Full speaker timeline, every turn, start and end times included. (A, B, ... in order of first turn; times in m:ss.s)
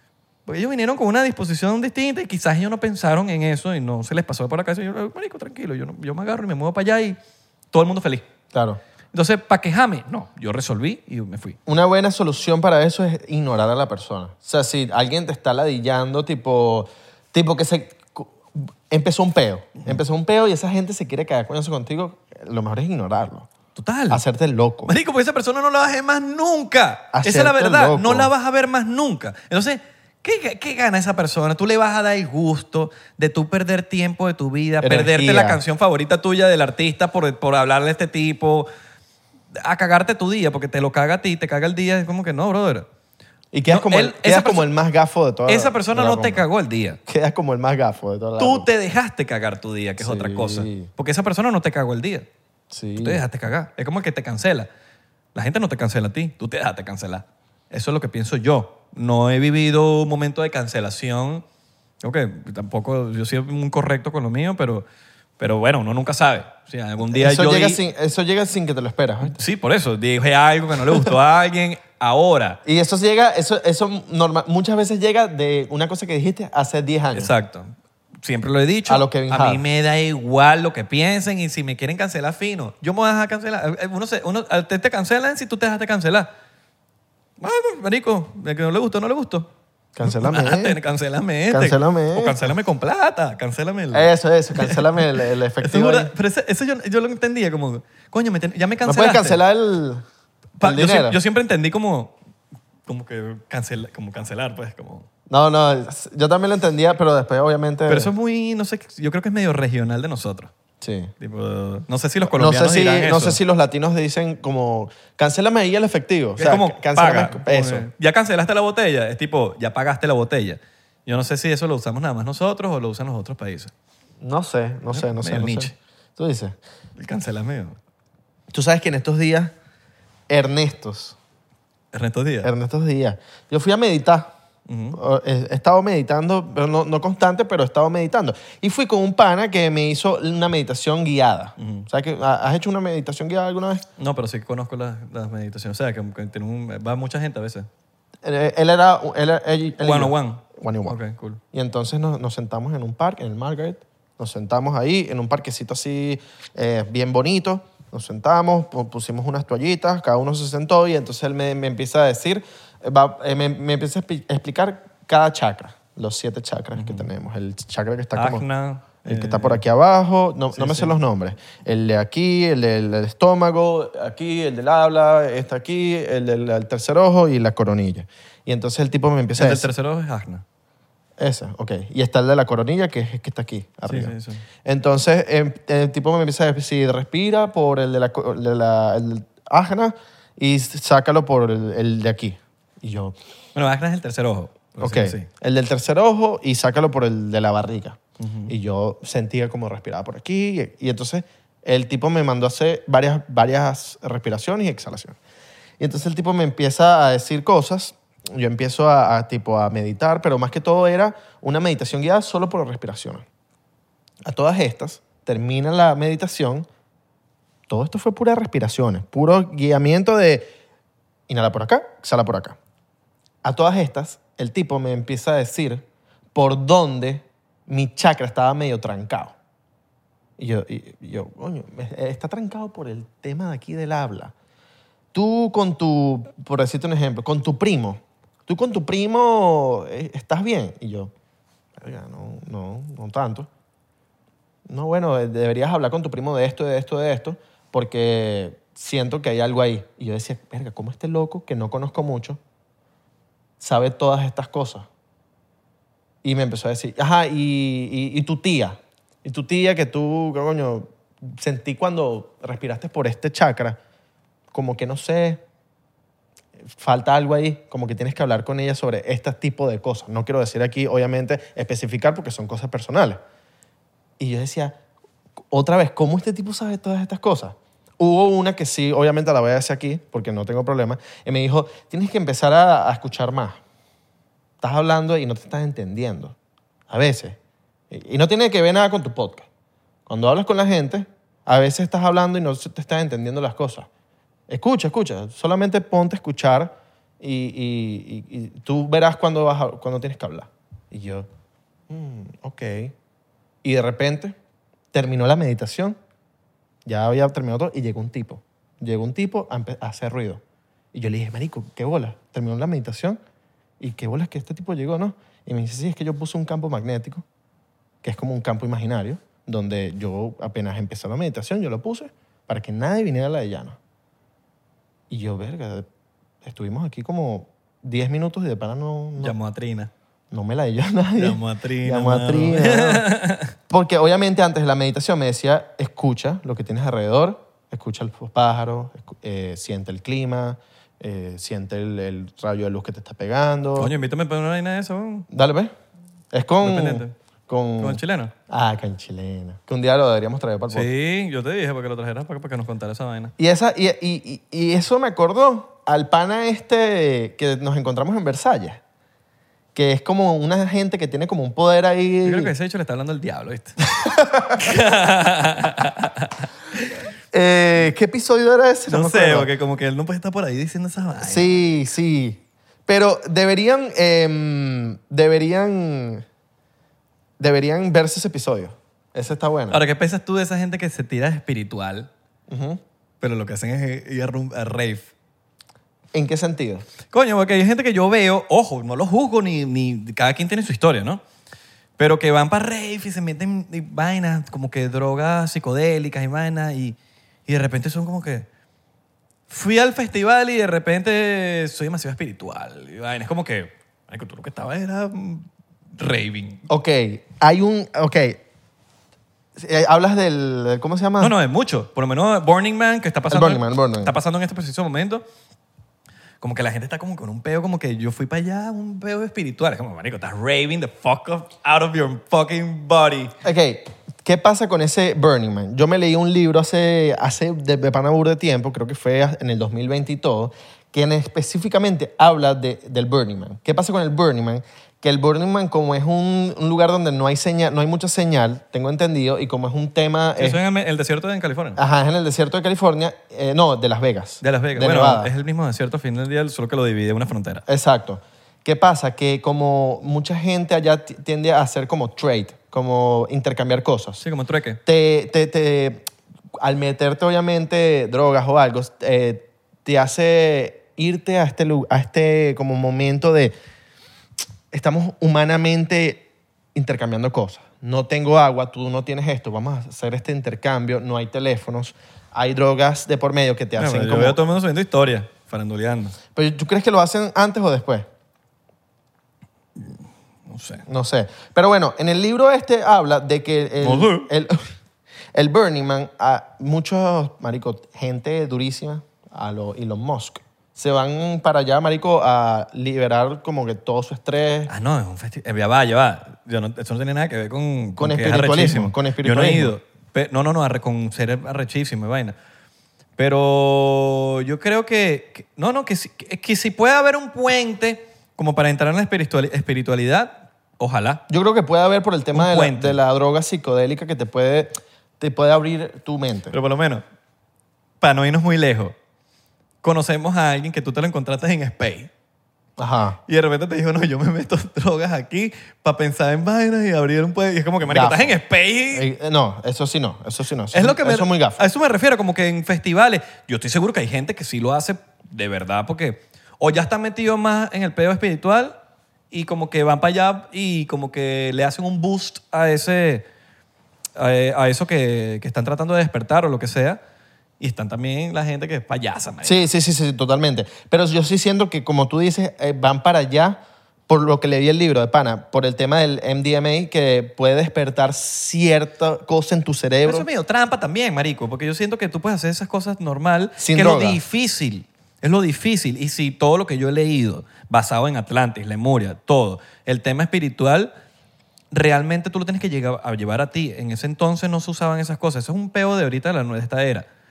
0:00.5-0:07.2 A
0:07.7-0:08.3 A
0:08.5-0:08.8 B
0:09.1-0:11.6 A
0:11.7-0:23.5 B
0:23.8-0:24.2 A
0:24.1-0:24.9 B
0:24.9-0:38.7 A
0:27.1-0:28.3 B
0:34.8-0:35.6 B
0:39.6-0:42.9 A
0:43.5-0:46.4 B
0:43.7-0:44.7 A
0:45.5-0:47.0 A
0:47.1-0:48.7 B
0:48.4-0:52.3 A
0:50.0-0:50.9 B
0:52.7-0:53.2 B
0:53.0-0:54.7 A
0:55.4-1:01.4 A
1:02.0-1:04.9 A
1:05.4-1:07.8 A
1:07.1-1:09.4 B
1:09.2-1:12.6 A
1:12.6-1:17.3 B
1:17.1-1:26.3 A
1:18.9-1:19.6 B
1:27.4-1:29.5 A
1:30.0-1:30.8 B
1:30.0-1:34.9 A
1:31.5-1:32.5 B
1:33.9-1:36.1 B
1:35.6-1:39.4 A
1:38.8-1:40.0 B
1:40.6-1:42.2 A
1:40.6-1:41.2 B
1:42.9-1:45.1 A
1:45.3-1:48.1 B
1:47.9-1:50.5 A
1:50.8-1:51.1 B
1:51.2-1:53.4 A
1:52.2-1:57.9 B
1:56.4-2:03.7 A
2:04.2-2:06.6 B
2:04.9-2:05.8 A
2:07.0-2:07.8 A
2:08.5-2:09.5 B
2:10.3-2:11.2 B
2:11.9-2:12.5 A
2:12.4-2:14.3 B
2:14.7-2:15.0 A
2:14.9-2:23.8 B
2:21.6-2:21.9 A
2:24.0-2:27.7 A
2:28.2-2:31.0 B
2:29.8-2:31.4 A
2:31.5-2:48.4 B
2:46.8-2:47.1 A
2:48.2-2:49.6 A
2:49.0-2:59.7 B
2:50.5-2:51.0 A
2:59.4-3:00.4 A
3:01.2-3:13.2 B
3:03.9-3:04.4 A
3:13.6-3:15.3 A
3:14.8-3:25.2 B
3:18.2-3:18.5 A
3:25.8-3:33.2 B
3:34.2-3:36.7 B
3:37.7-3:40.5 B
3:41.3-3:42.6 B
3:43.4-3:49.4 B
3:50.4-3:54.3 B
3:55.1-4:01.1 B
4:01.8-4:03.5 B
4:04.7-4:12.4 B
4:13.6-4:14.9 B
4:16.2-4:23.8 B
4:24.5-4:25.4 B
4:26.7-4:33.2 B
4:34.2-4:34.8 B
4:35.5-4:43.6 B
4:44.6-4:46.4 B
4:46.9-4:47.4 B
4:47.9-4:49.5 B
4:50.1-4:53.9 B
4:54.5-5:01.3 B
5:01.9-5:02.9 B
5:03.6-5:04.4 B
5:04.9-5:06.0 B
5:06.8-5:10.4 B
5:10.9-5:13.2 B
5:13.8-5:17.2 B
5:18.0-5:23.8 B
5:25.1-5:25.9 B
5:26.4-5:29.4 B
5:29.2-5:29.9 A
5:30.3-5:33.1 B
5:31.2-5:33.5 A
5:33.7-5:43.9 B
5:43.8-5:45.3 A
5:45.3-5:45.7 B
5:46.3-5:50.9 B
5:46.6-5:47.2 A
5:47.8-5:48.3 A
5:50.7-5:53.3 A
5:53.4-5:58.8 B
5:59.8-6:02.5 B
6:02.2-6:03.8 A
6:04.0-6:04.6 B
6:04.5-6:06.9 A
6:07.3-6:09.5 B
6:08.9-6:11.6 A
6:11.2-6:16.2 B
6:17.4-6:19.8 B
6:19.7-6:22.1 A
6:22.5-6:22.8 B
6:23.2-6:25.1 A
6:26.1-6:26.9 B
6:27.1-6:31.2 A
6:32.0-6:38.5 A
6:39.5-6:46.7 A
6:46.7-6:48.4 B
6:49.6-6:51.4 B
6:51.2-6:55.2 A
6:53.3-6:54.1 B
6:56.4-7:03.4 A
7:03.4-7:20.6 B
7:20.4-7:21.8 A
7:21.8-7:25.3 B
7:24.4-7:27.6 A
7:27.7-7:34.2 B
7:34.2-7:34.8 A
7:34.8-7:43.6 B
7:44.7-7:54.4 B
7:53.8-7:56.2 A
7:56.4-7:58.1 B
7:59.8-8:00.8 A
8:00.9-8:04.6 B
8:03.8-8:04.3 A
8:05.3-8:14.7 B
8:14.7-8:22.4 A
8:18.0-8:19.8 B
8:23.2-8:31.2 A
8:31.3-8:36.6 B
8:32.3-8:33.0 A
8:36.5-8:37.0 A
8:38.0-8:39.0 A
8:39.8-8:42.1 A
8:42.8-8:43.2 B
8:43.3-8:49.1 A
8:47.8-8:48.4 B
8:48.9-8:51.6 B
8:50.7-8:58.8 A
8:59.3-9:03.3 A
9:04.2-9:07.0 A
9:07.6-9:09.6 A
9:09.4-9:20.3 B
9:20.0-9:30.9 A
9:23.6-9:24.2 B
9:31.7-9:37.1 A